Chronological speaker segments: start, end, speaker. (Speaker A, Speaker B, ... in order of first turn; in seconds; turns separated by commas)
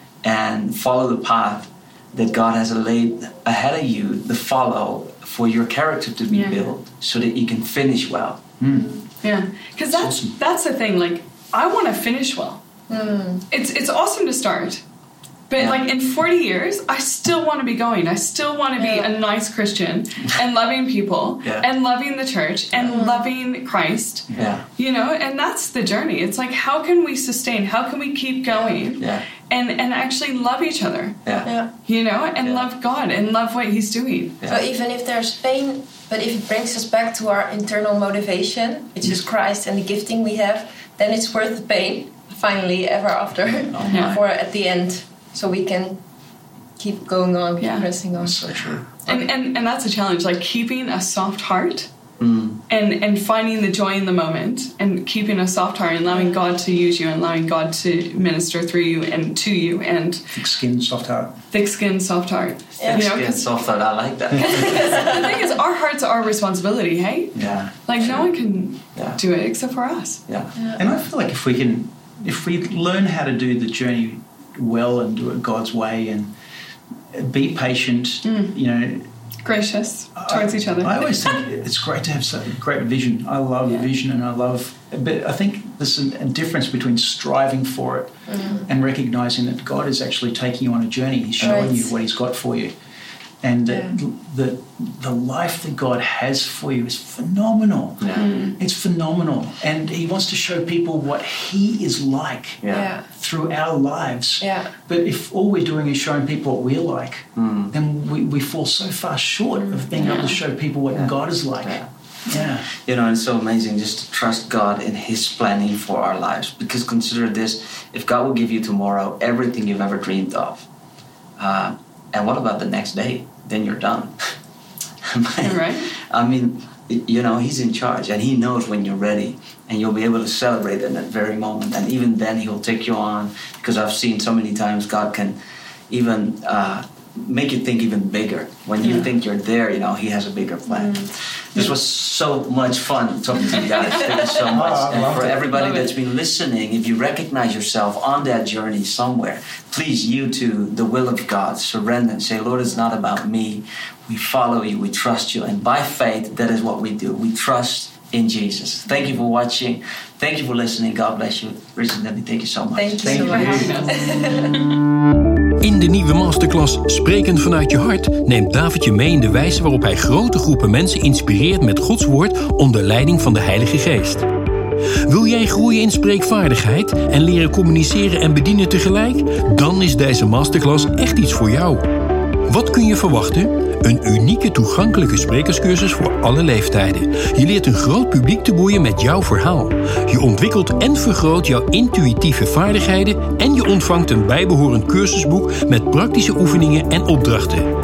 Speaker A: 0.2-8.4, Speaker B: 6.3-6.7, Speaker C: 8.6-9.0, Speaker B: 9.2-12.6, Speaker C: 9.9-10.3, Speaker D: 12.9-13.4, Speaker B: 13.5-14.8, Speaker B: 15.5-34.4, Speaker D: 18.8-19.1, Speaker A: 21.4-21.7, Speaker D: 22.8-23.2, Speaker A: 24.3-24.6, Speaker A: 29.0-29.2, Speaker D: 31.4-31.7, Speaker D: 34.4-46.0, Speaker A: 43.6-44.2, Speaker B: 43.9-44.2, Speaker D: 46.8-48.5, Speaker B: 47.6-47.9, Speaker C: 48.1-48.8, Speaker B: 49.0-51.9, Speaker A: 52.2-52.6, Speaker B: 52.7-60.2, Speaker D: 56.1-56.4, Speaker C: 60.3-61.4, Speaker B: 61.5-63.4, Speaker D: 62.8-63.1, Speaker A: 62.9-65.2, Speaker C: 64.3-64.8, Speaker B: 64.4-70.2, Speaker D: 64.5-65.3, Speaker C: 67.3-67.7, Speaker A: 67.4-68.2, Speaker A: 68.9-69.2, Speaker A: 70.3-70.9, Speaker D: 70.5-70.8, Speaker C: 70.8-76.3, Speaker C: 77.1-79.1, Speaker B: 78.2-78.6, Speaker B: 79.4-81.3, Speaker C: 80.2-92.7, Speaker D: 88.3-88.6, Speaker D: 91.4-91.8, Speaker A: 91.4-91.7, Speaker C: 93.4-112.7, Speaker D: 93.7-93.9, Speaker A: 98.0-98.3, Speaker B: 98.1-98.5, Speaker A: 102.6-102.9, Speaker D: 102.7-103.0, Speaker D: 104.4-104.7, Speaker A: 107.3-107.7, Speaker D: 109.7-110.1, Speaker B: 110.0-110.4, Speaker A: 110.9-111.9, Speaker A: 112.7-120.7, Speaker A: 121.4-124.3, Speaker A: 125.0-135.4, Speaker B: 125.4-125.9, Speaker A: 135.9-163.8, Speaker D: 140.7-141.1, Speaker C: 144.5-145.5, Speaker B: 145.5-145.9, Speaker D: 162.7-164.6, Speaker B: 163.0-164.6, Speaker C: 163.0-163.9, Speaker E: 165.6-174.3, Speaker E: 175.1-181.8, Speaker E: 182.5-197.7